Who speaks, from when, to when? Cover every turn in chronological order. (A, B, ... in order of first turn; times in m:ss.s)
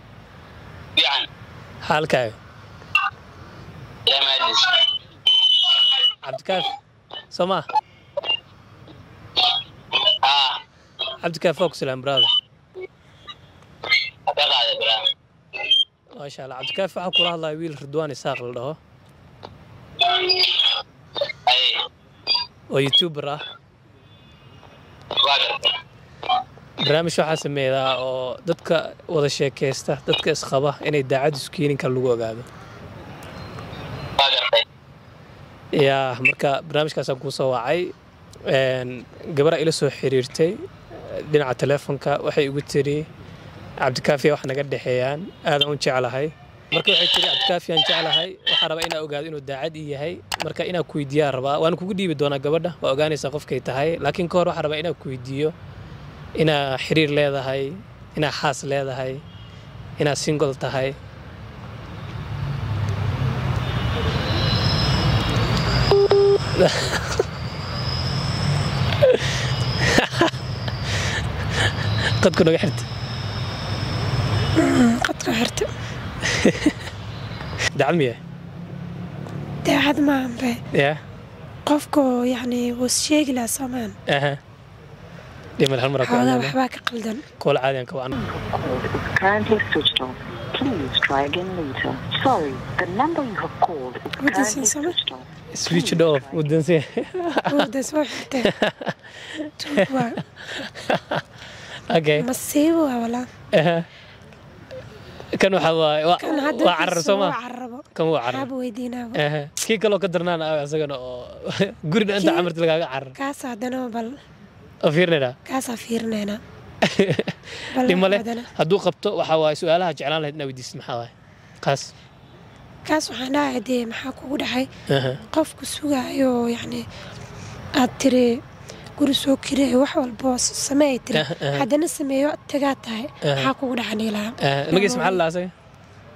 0:01.0-0:01.2 A
0:01.8-0:02.4 B
0:04.1-0:04.6 A
0:05.4-0:06.0 A
0:06.2-0:06.7 B
0:07.3-0:07.6 B
0:10.2-0:10.6 A
0:11.2-0:12.3 B
0:14.3-0:15.0 A
0:16.2-0:18.8 B
0:20.0-0:20.8 A
0:21.5-0:21.8 A
0:22.7-0:23.4 B
0:25.2-0:25.7 A
0:26.8-0:32.5 B
0:34.2-0:34.6 A
0:35.7-0:37.9 B
0:38.5-0:43.0 B
0:43.8-0:55.5 B
0:56.4-0:59.2 B
1:00.0-1:01.0 B
1:06.5-1:07.2 B
1:09.0-1:10.3 B
1:12.2-1:12.9 B
1:14.6-1:15.7 C
1:16.2-1:16.8 B
1:17.7-1:18.2 B
1:19.6-1:20.6 C
1:20.7-1:21.0 B
1:21.6-1:24.0 C
1:24.1-1:24.4 B
1:25.6-1:26.6 B
1:26.0-1:27.2 C
1:27.4-1:28.1 B
1:28.1-1:36.4 D
1:34.2-1:35.0 C
1:35.5-1:37.7 B
1:37.5-1:38.5 C
1:38.4-1:41.2 B
1:39.6-1:40.6 C
1:41.9-1:42.3 B
1:42.2-1:43.3 C
1:43.5-1:43.9 B
1:45.4-1:47.4 B
1:46.2-1:49.2 C
1:47.9-1:48.5 B
1:49.1-1:53.1 B
1:52.2-1:52.5 C
1:53.2-1:54.2 C
1:54.8-1:55.4 B
1:55.4-1:56.4 C
1:56.8-2:01.1 B
1:57.7-1:58.5 C
2:01.6-2:01.9 B
2:02.8-2:04.7 C
2:04.9-2:05.2 B
2:05.3-2:06.8 C
2:07.8-2:08.4 C
2:09.0-2:15.2 C
2:11.1-2:11.7 B
2:13.2-2:13.5 B
2:14.4-2:15.5 B